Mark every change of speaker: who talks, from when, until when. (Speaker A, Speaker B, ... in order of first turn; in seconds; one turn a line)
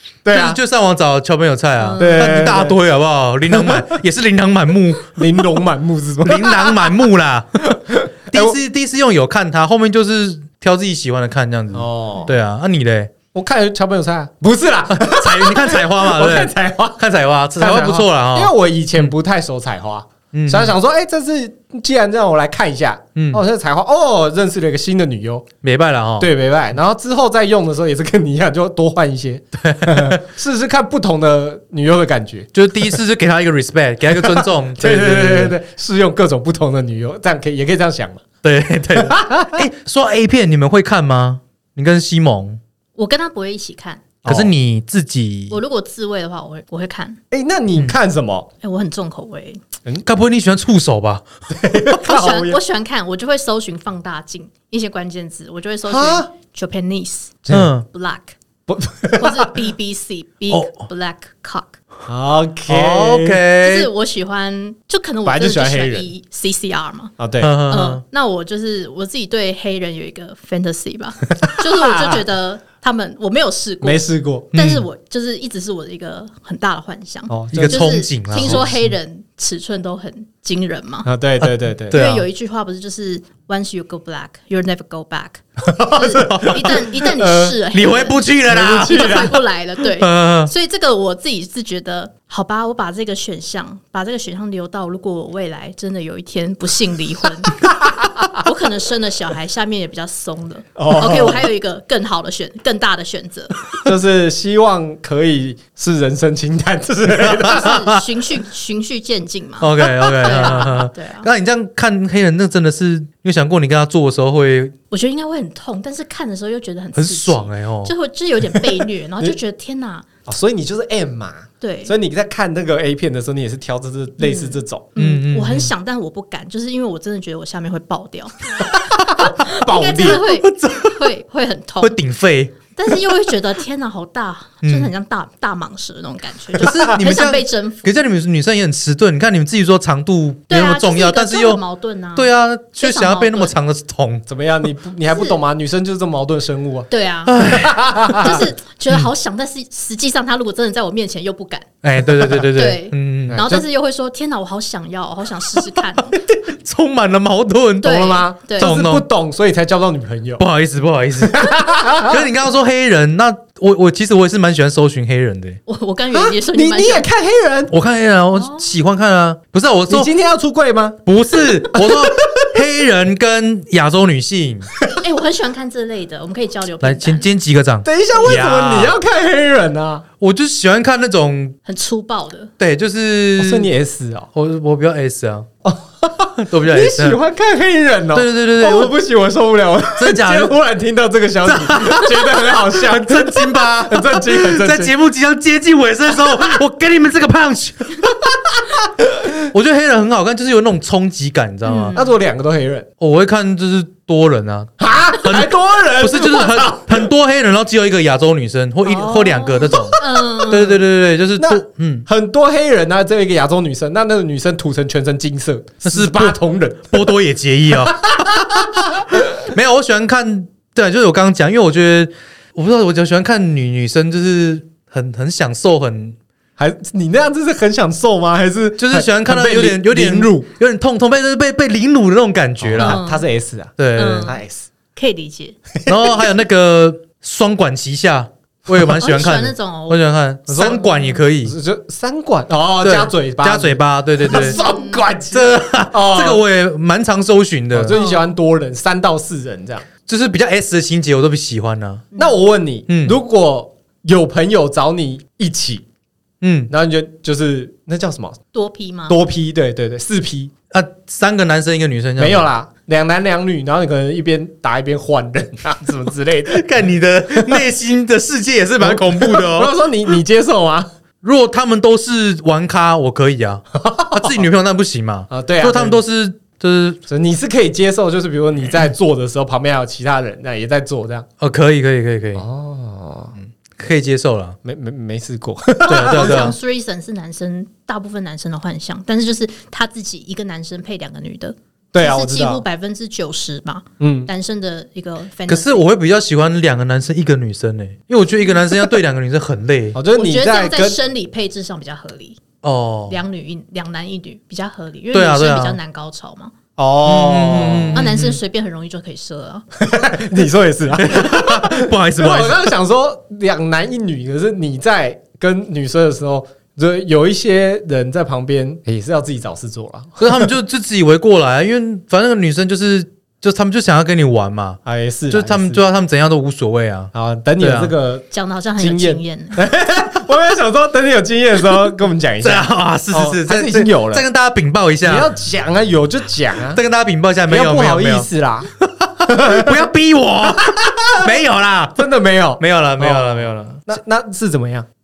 Speaker A: 0.2-0.6
Speaker B: 0.3-5.2
Speaker C: 1.8-2.4
Speaker A: 2.0-2.8
Speaker A: 3.5-4.0
Speaker A: 5.1-7.1
Speaker B: 6.2-7.7
Speaker A: 7.7-8.6
Speaker B: 8.3-13.1
Speaker A: 11.7-12.3
Speaker A: 13.3-17.0
Speaker B: 14.9-19.1
Speaker A: 17.6-25.5
Speaker B: 20.3-20.8
Speaker B: 23.2-23.4
Speaker B: 25.6-26.3
Speaker A: 26.2-32.5
Speaker B: 29.6-30.2
Speaker B: 32.5-35.5
Speaker A: 34.1-38.2
Speaker B: 38.4-42.6
Speaker A: 39.0-39.7
Speaker C: 43.0-44.0
Speaker A: 44.2-44.5
Speaker B: 44.3-45.6
Speaker C: 45.5-47.2
Speaker A: 47.3-48.5
Speaker C: 48.6-49.6
Speaker B: 50.0-51.2
Speaker A: 51.5-52.6
Speaker C: 51.9-58.4
Speaker A: 55.9-56.3
Speaker A: 57.5-57.7
Speaker B: 57.5-57.9
Speaker A: 58.7-59.6
Speaker C: 59.1-61.8
Speaker B: 60.5-60.8
Speaker A: 62.1-63.4
Speaker B: 62.7-63.9
Speaker C: 63.6-67.1
Speaker A: 65.2-66.1
Speaker A: 67.2-67.5
Speaker B: 67.4-68.0
Speaker C: 67.7-74.0
Speaker A: 71.5-72.2
Speaker A: 73.8-74.5
Speaker C: 74.5-81.1
Speaker B: 74.5-74.9
Speaker A: 77.3-78.8
Speaker B: 77.5-78.7
Speaker A: 81.0-82.0
Speaker B: 81.9-82.3
Speaker C: 81.9-97.6
Speaker A: 85.6-87.6
Speaker B: 86.2-86.8
Speaker B: 87.7-89.2
Speaker A: 88.5-89.4
Speaker B: 90.0-90.5
Speaker A: 97.6-98.3
Speaker C: 98.3-103.6
Speaker A: 100.8-101.5
Speaker A: 103.8-107.9
Speaker B: 107.2-108.0
Speaker C: 107.4-111.3
Speaker B: 109.6-114.7
Speaker A: 110.1-110.8
Speaker C: 114.9-120.1
Speaker B: 117.0-117.9
Speaker A: 120.3-124.9
Speaker C: 121.6-121.9
Speaker C: 124.2-132.0
Speaker B: 125.0-125.7
Speaker A: 129.2-130.2
Speaker B: 130.0-131.1
Speaker B: 131.8-133.3
Speaker C: 132.7-137.8
Speaker B: 134.6-134.9
Speaker B: 136.6-141.6
Speaker C: 140.5-143.5
Speaker B: 142.2-144.3
Speaker A: 144.3-146.9
Speaker C: 145.1-145.4
Speaker C: 146.9-147.5
Speaker B: 147.3-149.1
Speaker A: 147.4-148.4
Speaker C: 148.2-151.7
Speaker B: 151.8-153.6
Speaker C: 152.5-156.2
Speaker A: 153.3-153.6
Speaker B: 155.8-157.9
Speaker C: 157.8-158.7
Speaker A: 157.8-160.4
Speaker B: 158.6-159.1
Speaker B: 160.4-165.6
Speaker A: 161.2-162.3
Speaker C: 165.7-167.1
Speaker A: 166.1-167.7
Speaker B: 167.7-170.1
Speaker C: 168.3-168.7
Speaker A: 169.9-171.0
Speaker B: 171.1-174.7
Speaker A: 171.7-172.5
Speaker C: 175.0-177.3
Speaker B: 176.8-179.0
Speaker A: 177.8-180.1
Speaker B: 180.2-181.6
Speaker C: 181.7-182.5
Speaker B: 182.6-183.7
Speaker A: 183.4-184.3
Speaker B: 184.3-185.5
Speaker A: 185.6-194.9
Speaker B: 186.4-187.2
Speaker B: 188.1-188.9
Speaker B: 190.0-190.6
Speaker B: 191.5-198.2
Speaker A: 196.3-196.6
Speaker B: 199.4-202.0
Speaker C: 201.6-202.1
Speaker A: 201.9-202.9
Speaker B: 203.0-212.1
Speaker A: 204.8-207.1
Speaker C: 208.9-210.8
Speaker A: 211.4-217.2
Speaker B: 215.9-226.2
Speaker A: 217.7-219.2
Speaker A: 226.6-230.5
Speaker B: 228.8-233.0
Speaker A: 232.6-234.7
Speaker C: 232.8-233.3
Speaker B: 233.8-234.4
Speaker C: 234.0-234.4
Speaker C: 234.9-235.6
Speaker A: 235.7-236.3
Speaker B: 235.9-241.6
Speaker C: 238.8-240.0
Speaker A: 240.5-240.9
Speaker C: 240.6-241.2
Speaker A: 241.4-246.4
Speaker B: 242.8-244.6
Speaker C: 244.3-245.0
Speaker B: 245.3-248.0
Speaker A: 247.7-249.9
Speaker C: 247.9-248.3
Speaker B: 250.1-252.1
Speaker A: 252.2-255.8
Speaker B: 252.9-253.2
Speaker B: 256.4-256.7
Speaker A: 256.7-258.4
Speaker C: 258.5-259.2
Speaker A: 259.1-260.5
Speaker B: 260.7-262.4
Speaker A: 262.2-266.6
Speaker B: 266.5-269.8
Speaker A: 267.4-267.7
Speaker A: 268.8-270.9
Speaker B: 271.2-277.0
Speaker A: 273.8-274.4
Speaker A: 275.3-276.0
Speaker A: 277.1-281.3
Speaker B: 281.4-282.4
Speaker A: 282.4-283.4
Speaker B: 283.4-284.6
Speaker A: 284.6-286.6
Speaker B: 285.9-286.6
Speaker C: 285.9-295.9
Speaker A: 291.9-292.6
Speaker A: 294.0-294.3
Speaker B: 295.5-300.0
Speaker A: 299.9-301.0
Speaker C: 300.1-302.4
Speaker B: 302.6-303.2
Speaker C: 303.1-306.5
Speaker B: 305.1-305.8
Speaker A: 306.8-308.1
Speaker B: 307.1-308.4
Speaker C: 307.9-309.7
Speaker A: 309.8-320.5
Speaker B: 311.0-312.6
Speaker B: 320.2-327.9
Speaker A: 324.9-325.8
Speaker A: 327.1-328.3
Speaker C: 328.3-329.7
Speaker A: 328.8-334.3
Speaker B: 332.4-335.3
Speaker A: 335.0-336.8
Speaker B: 336.8-338.3
Speaker A: 337.5-338.7
Speaker B: 338.8-342.0
Speaker A: 339.3-339.8
Speaker A: 340.6-341.3
Speaker A: 342.0-344.9
Speaker B: 342.6-343.8